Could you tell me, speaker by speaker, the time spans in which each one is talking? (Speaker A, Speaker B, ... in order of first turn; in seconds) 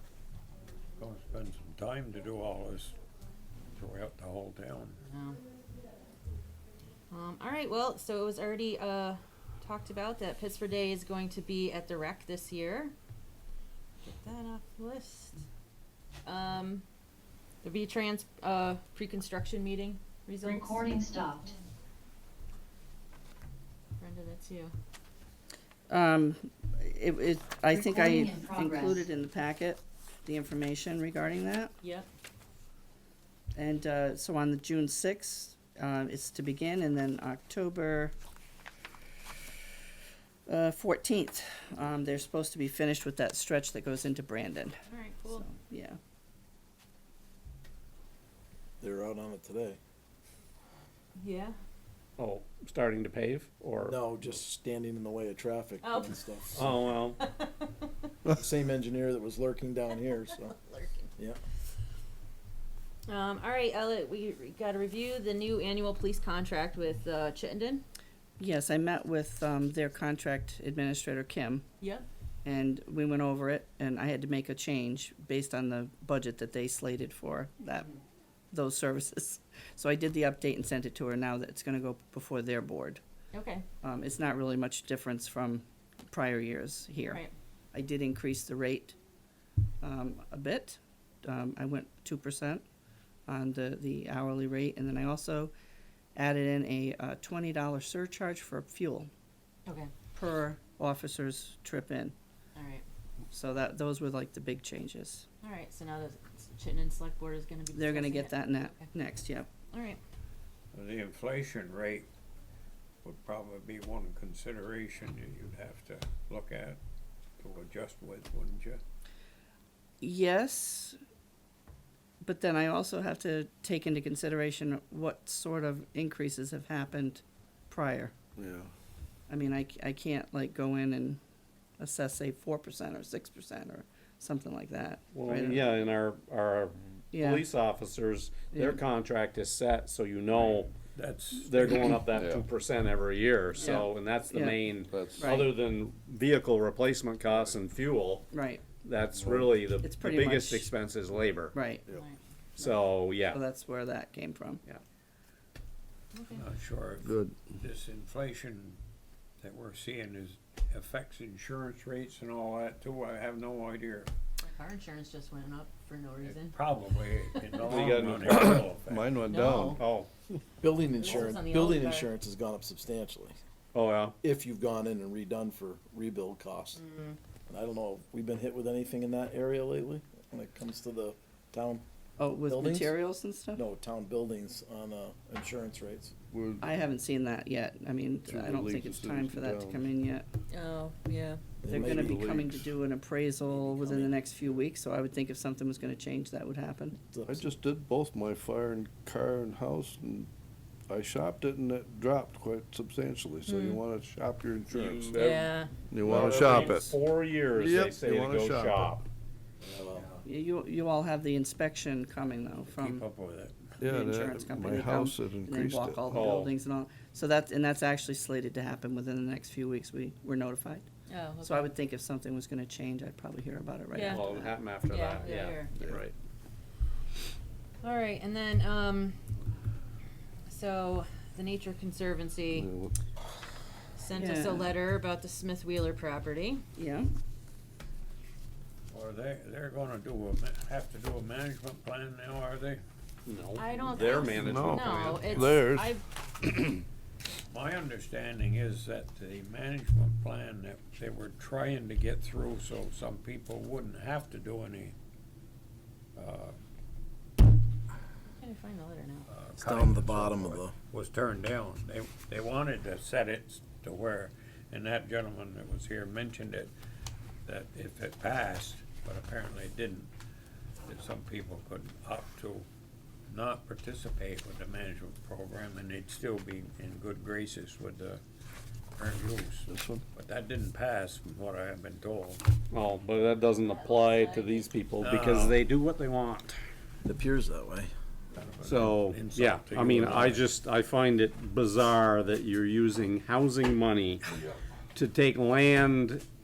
Speaker A: 1.0-3.0, 3.7-5.0, 110.7-112.1, 113.0-116.8, 117.4-118.8, 140.3-141.9, 156.3-158.8, 159.4-164.1, 166.2-169.1, 212.7-213.8, 238.9-242.8, 247.5-254.9, 256.1-256.6, 259.3-266.7, 267.4-270.1, 270.9-272.7, 273.3-278.2, 279.0-282.4, 285.0-285.6, 288.3-290.5
Speaker B: 5.1-5.4, 7.1-12.9, 14.1-15.4, 16.2-16.8, 17.6-21.2, 24.0-24.7, 31.8-32.1, 44.9-45.5, 51.2-51.5, 55.8-56.6, 57.2-57.8, 60.2-61.1, 63.1-67.8, 71.8-72.0, 83.3-83.6, 87.0-87.3, 99.7-99.9, 102.5-102.8, 105.4-108.9, 109.7-110.0, 151.9-152.2, 156.1-156.4, 164.4-166.6, 169.3-169.8, 170.9-172.1, 176.7-177.2, 190.5-191.4, 203.4-203.8, 205.2-205.7, 221.1-221.7, 223.9-225.7, 227.8-229.2, 230.4-232.7, 234.0-236.6, 243.6-246.0, 258.3-259.3, 283.5-284.7
Speaker C: 20.4-21.5, 27.8-28.7
Speaker D: 25.9-31.7, 33.5-38.1, 40.5-44.8, 45.3-46.0, 68.4-71.7, 72.4-77.9, 78.5-83.0, 83.8-89.0, 89.8-92.6, 93.2-95.5, 96.1-99.1, 100.1-102.1, 103.3-105.3, 107.7-109.5, 120.0-121.0, 122.2-128.1, 129.3-131.2, 131.8-135.8, 137.1-137.5, 138.5-138.8, 143.6-145.6, 148.3-148.6, 149.8-150.7, 151.5-151.8, 152.6-154.6, 182.2-183.6, 186.6-190.3, 191.7-197.0, 210.2-213.0, 213.9-220.9, 221.4-224.5, 234.1-234.8, 236.8-237.1
Speaker E: 48.8-49.8, 53.8-56.8, 58.2-60.5, 170.6-173.3, 174.2-176.8, 177.5-181.8, 182.4-183.0, 183.5-186.1, 191.6-192.5, 193.4-194.1, 197.1-197.5, 209.6-210.2, 259.6-260.7, 287.0-287.9
Speaker F: 52.2-54.0, 56.5-57.2, 135.1-140.7, 141.4-148.3, 148.8-151.6, 152.6-153.4, 167.6-168.6, 169.7-170.1, 173.7-174.2, 204.7-209.0, 216.1-216.5, 224.0-226.1, 243.2-245.6, 282.7-286.6, 288.6-294.3, 294.9-296.2
Speaker G: 128.3-128.7, 142.0-142.5, 144.8-145.2, 149.1-149.6, 157.0-157.6, 167.7-169.8, 186.3-186.7, 188.2-189.9, 191.7-192.8, 197.3-200.3, 200.9-205.3, 205.9-206.9, 207.5-209.0, 213.8-216.2, 232.5-232.9, 244.3-246.8, 279.7-280.0